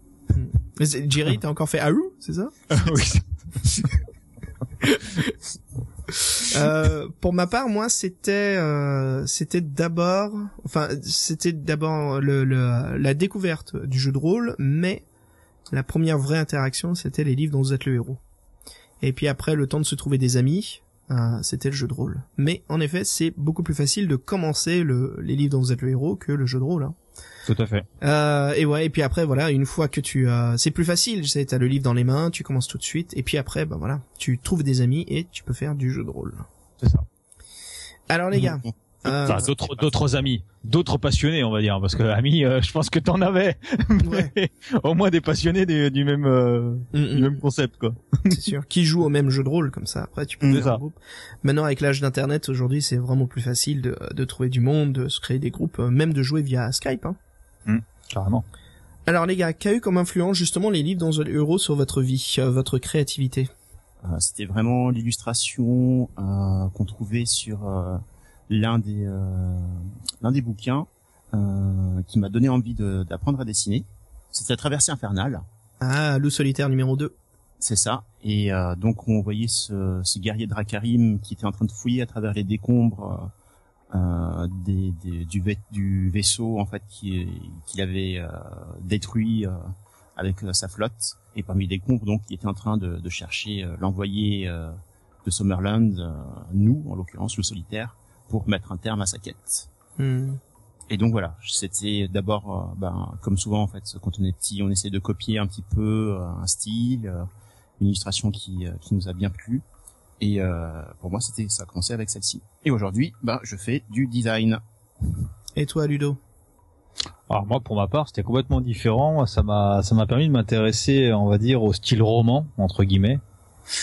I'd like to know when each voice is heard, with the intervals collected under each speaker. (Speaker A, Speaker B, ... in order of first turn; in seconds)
Speaker A: 0.3-2.7, 4.8-5.3, 6.1-15.0, 15.7-18.2, 19.0-26.9, 28.0-36.5, 38.1-39.5, 44.0-44.3, 46.9-47.4, 48.2-57.2, 59.1-63.5, 75.8-77.1, 100.0-100.4, 115.5-116.2
Speaker B: 2.7-3.9, 27.5-27.9, 39.2-48.3, 50.4-50.8, 57.6-58.4, 117.3-123.2
Speaker C: 38.4-40.0, 64.0-75.4, 77.6-83.3, 83.9-99.7, 100.9-107.2, 107.8-109.6, 110.2-114.6